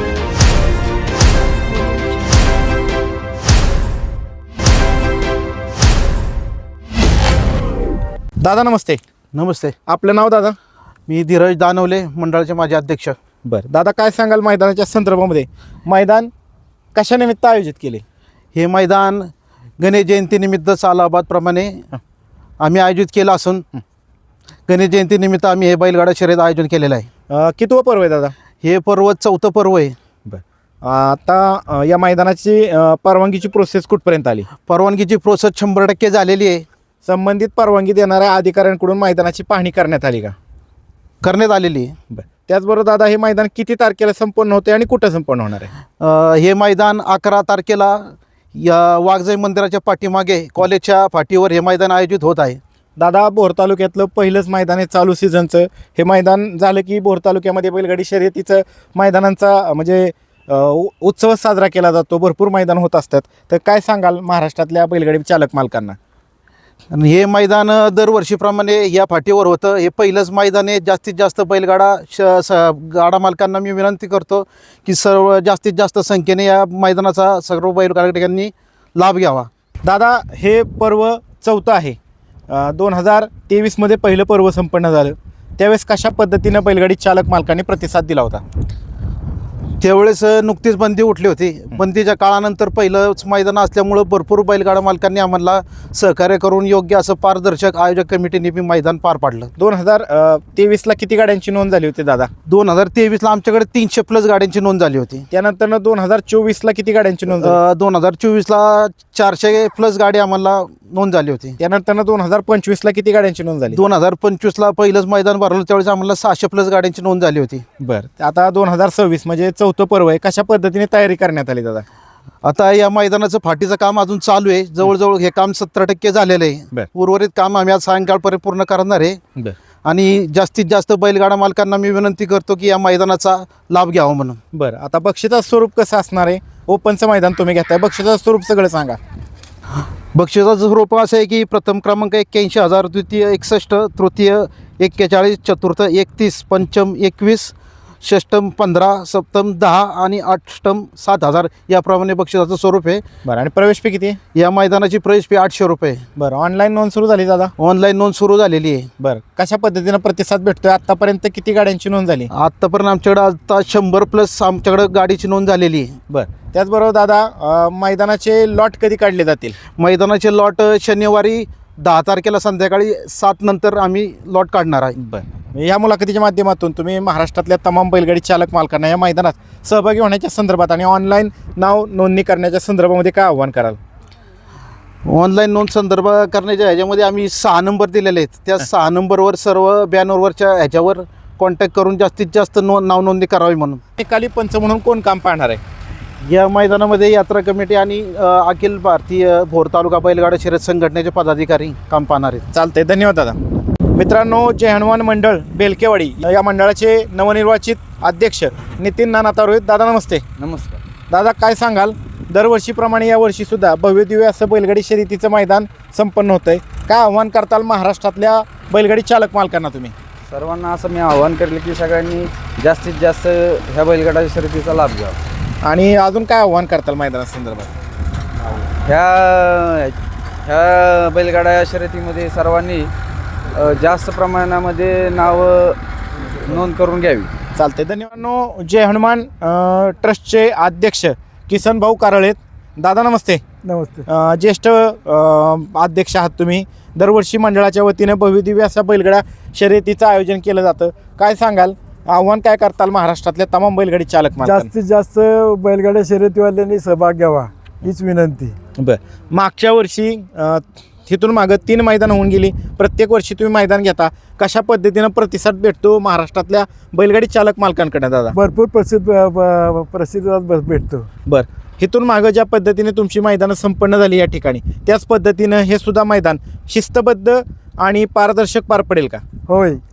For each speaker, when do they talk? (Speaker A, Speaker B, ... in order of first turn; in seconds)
Speaker A: 8.4-9.0, 9.9-10.6, 13.4-16.3, 16.9-18.0, 27.3-28.3, 30.2-34.5, 37.0-40.3, 42.1-45.7, 53.0-66.0, 79.8-82.0, 82.5-88.4, 99.6-102.3, 105.3-107.6, 111.6-113.8, 117.8-121.8, 134.5-139.0, 153.2-154.2, 156.2-157.5, 159.0-162.3, 166.1-169.6, 175.0-183.8, 194.0-195.6, 202.5-203.4, 203.9-210.2, 211.1-219.9, 225.6-227.7, 237.6-243.4, 244.1-254.7, 258.8-268.4, 271.3-279.2
Speaker B: 9.3-9.8, 11.1-13.2, 18.5-21.8, 22.6-23.6, 24.7-27.1, 28.6-29.9, 34.6-36.6, 41.2-41.9, 46.0-52.6, 66.9-79.5, 89.8-99.5, 102.5-105.2, 107.3-111.6, 113.7-117.6, 122.4-129.2, 129.8-134.4, 140.1-153.0, 154.3-156.0, 157.6-158.9, 162.3-166.0, 169.8-175.0, 185.1-193.8, 196.2-202.4
Speaker C: 210.4-210.8, 220.3-225.2, 228.5-232.9, 233.5-235.8, 236.4-237.3
Speaker D: 243.7-244.0, 254.4-258.6, 268.3-271.1, 279.5-279.8